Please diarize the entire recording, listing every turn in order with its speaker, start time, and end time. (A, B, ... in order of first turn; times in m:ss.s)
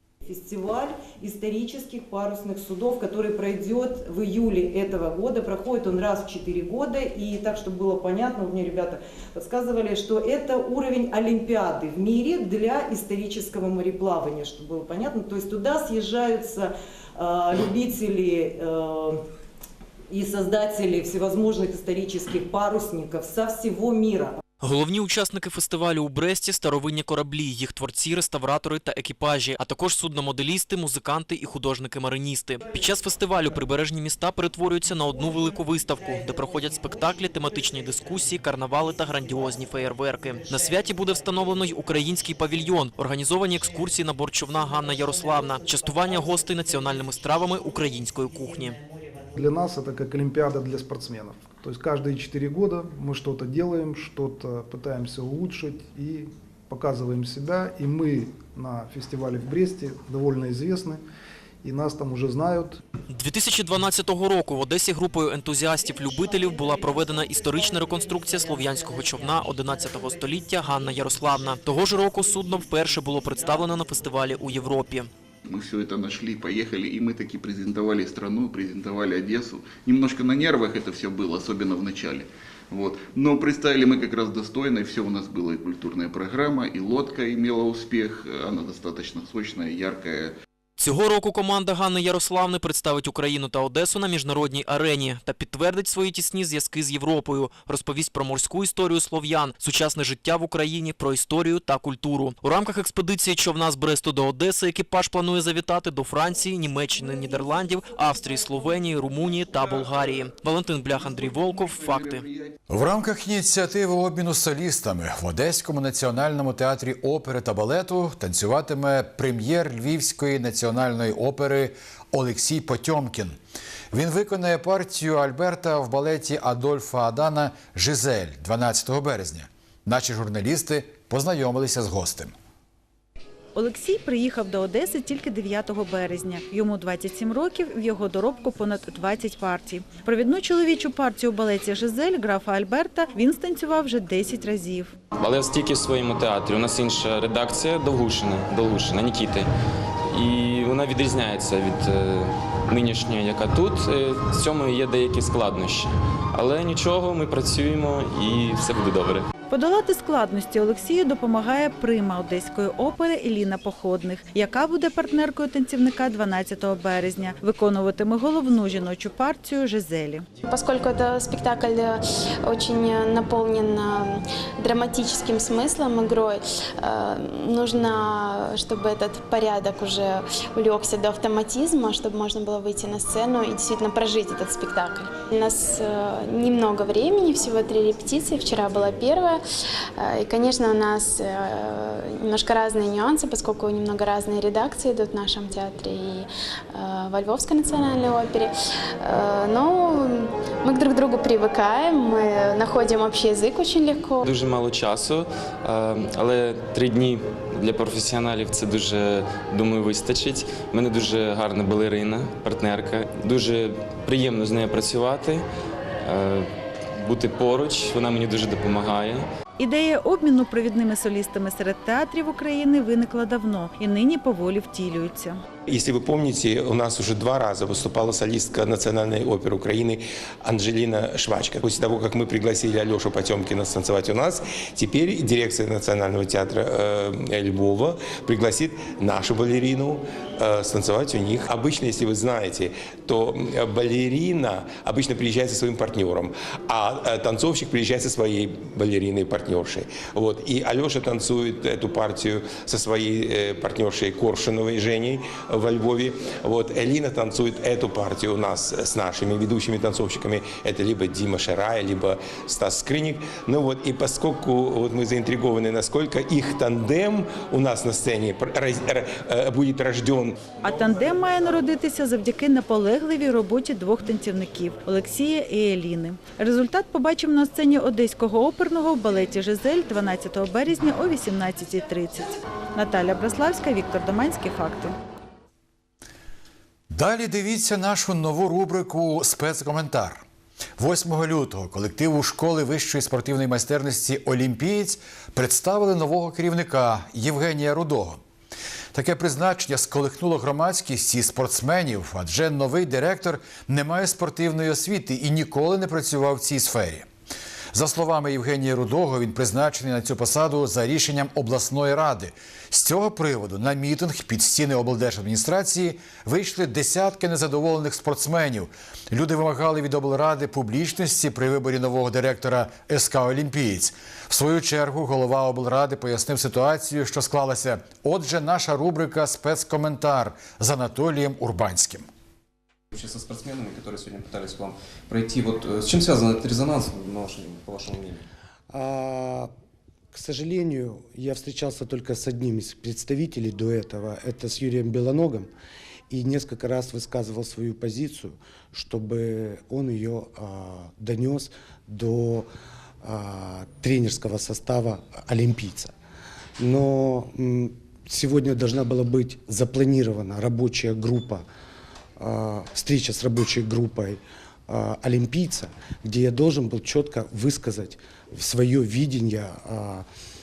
0:00.2-0:19.2 A
0:20.1-0:24.4 A
0:24.6-0:48.8 B
0:49.4-1:01.0 C
1:01.6-1:02.8 C
1:03.1-1:15.1 B
1:15.5-1:30.3 D
1:30.8-1:52.3 B
1:52.7-2:03.4 E
2:03.9-2:12.3 E
2:13.5-2:24.9 F
2:25.2-2:29.5 G
2:30.1-2:39.2 G
2:39.5-2:50.2 F
2:50.5-3:09.4 H
3:10.0-3:24.3 H
3:24.2-3:35.4 G
3:36.0-3:36.5 G
3:37.0-3:39.2 G
3:39.6-3:45.4 F
3:45.7-4:30.5 I
4:30.6-4:44.9 F
4:46.9-4:50.2 E
4:50.8-4:58.2 E
4:58.9-5:07.1 E
5:07.7-5:32.1 E
5:32.9-5:38.2 J
5:38.7-5:39.5 K
5:40.1-5:45.5 K
5:46.1-5:52.5 K
5:53.0-5:55.9 K
5:56.6-6:01.4 K
6:02.2-6:10.1 K